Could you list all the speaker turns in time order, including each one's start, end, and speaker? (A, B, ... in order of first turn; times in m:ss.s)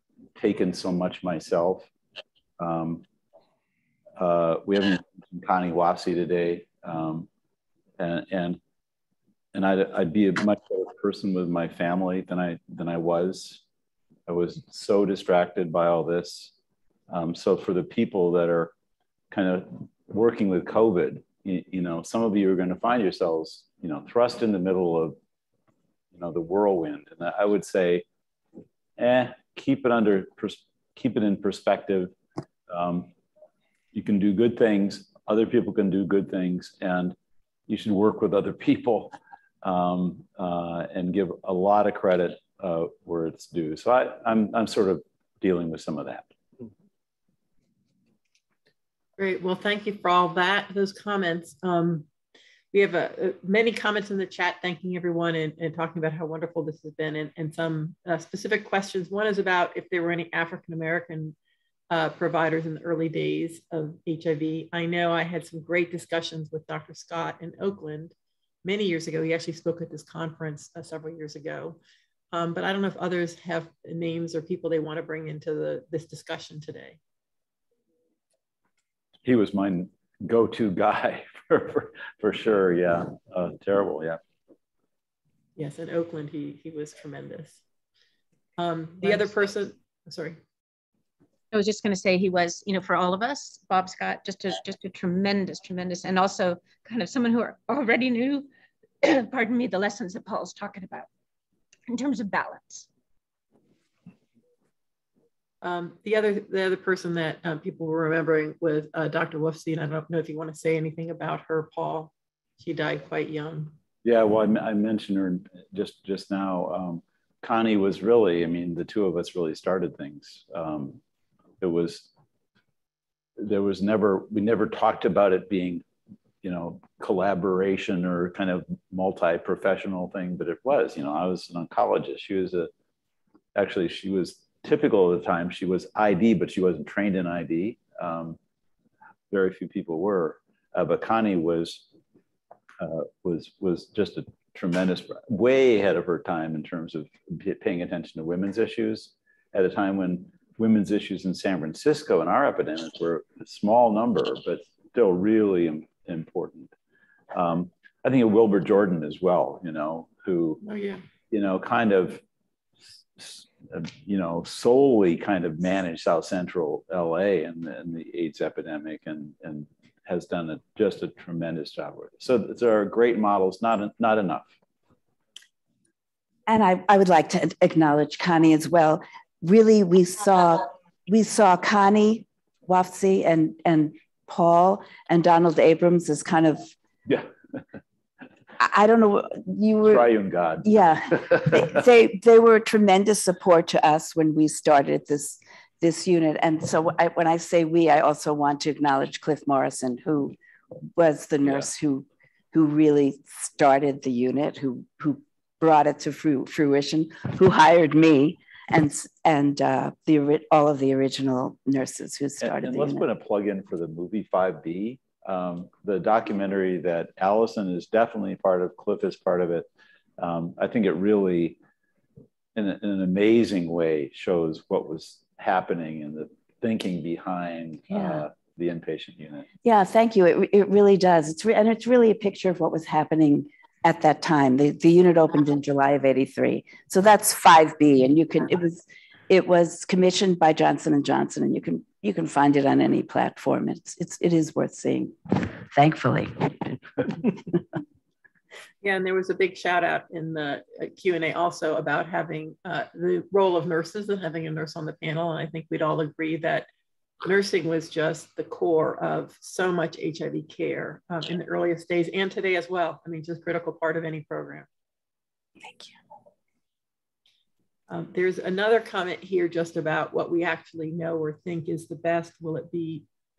0:00.4-0:01.9 A
0:02.6-0:03.0 A
0:04.2-0:07.3 A
0:08.0-0:08.6 A
0:09.5-0:13.6 A
0:14.3-0:16.5 A
0:17.1-0:18.7 A
0:19.3-0:25.2 A
0:26.1-0:28.1 A
0:29.0-0:32.2 A
0:32.7-0:33.1 A
0:33.9-0:37.2 A
0:37.7-0:46.3 A
0:49.2-0:52.1 B
0:52.7-1:01.4 B
1:01.9-1:11.8 B
1:12.3-1:17.0 B
1:19.3-1:24.2 A
1:25.6-1:27.6 B
1:28.6-1:30.4 B
1:31.5-1:38.5 C
1:39.0-1:41.1 C
1:41.9-1:42.9 C
1:45.6-1:53.7 B
1:54.0-2:01.0 A
2:01.6-2:02.1 A
2:03.4-2:05.8 A
2:06.4-2:12.7 A
2:13.6-2:18.4 A
2:19.3-2:21.8 A
2:22.8-2:36.7 A
2:37.3-2:40.6 A
2:40.6-2:41.0 B
2:41.3-2:42.2 A
2:43.2-2:54.5 A
2:56.5-3:06.7 D
3:08.6-3:10.1 D
3:09.9-3:11.6 A
3:10.6-3:20.4 D
3:21.0-3:33.0 D
3:32.4-3:41.6 A
3:42.6-3:49.5 A
3:48.0-3:48.2 D
3:49.6-4:07.4 D
4:08.8-4:16.7 B
4:17.2-4:24.7 B
4:27.9-4:33.0 B